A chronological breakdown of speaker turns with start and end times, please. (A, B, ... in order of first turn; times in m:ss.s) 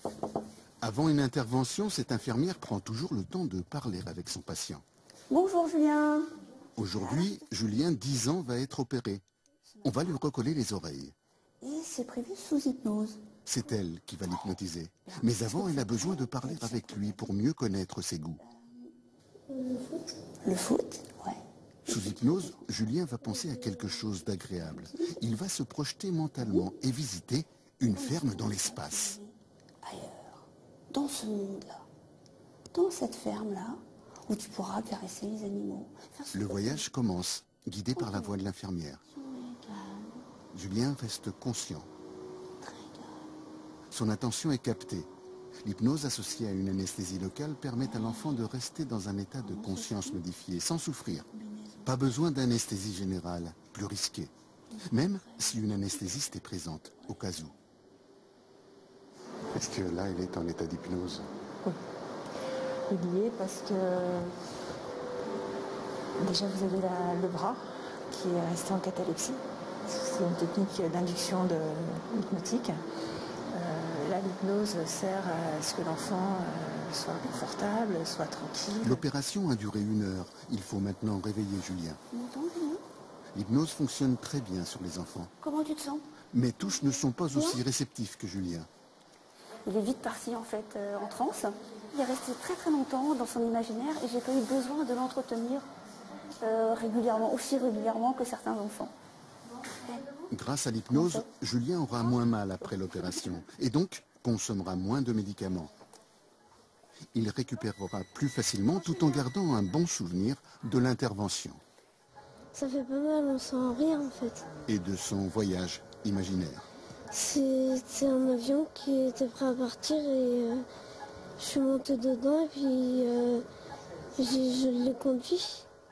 0:00.8-0:04.8 A
0:05.3-0:06.3 B
0:06.8-0:09.2 A
0:09.8-0:11.1 A
0:11.6-0:13.2 B
0:13.4-0:18.4 A
0:15.1-0:17.3 B
0:18.4-0:18.9 B
0:19.5-0:20.1 C
0:20.4-0:22.6 B
0:21.9-0:29.2 A
0:27.8-0:31.9 B
0:32.7-0:36.8 B
0:36.3-0:39.0 A
0:38.0-0:38.3 B
0:39.1-0:40.2 B
0:40.5-0:41.9 A
0:42.6-0:43.3 B
0:43.9-0:45.1 A
0:45.6-0:51.2 A
0:49.4-0:50.2 B
0:51.2-0:51.9 B
0:51.8-0:54.3 A
0:54.8-0:55.3 B
0:54.9-0:57.5 A
0:59.5-1:01.3 A
1:02.9-1:04.4 D
1:06.2-1:12.8 D
1:13.5-1:19.0 D
1:18.8-1:22.0 A
1:22.1-1:22.8 B
1:23.3-1:25.3 A
1:25.4-1:26.1 B
1:26.3-1:28.7 A
1:29.6-1:35.7 B
1:36.4-1:38.9 B
1:40.3-1:45.7 A
1:41.0-1:41.2 B
1:47.1-1:51.6 A
1:52.5-1:54.5 C
1:54.7-1:56.7 A
1:57.1-2:00.6 C
2:01.4-2:03.4 C
2:04.2-2:05.6 C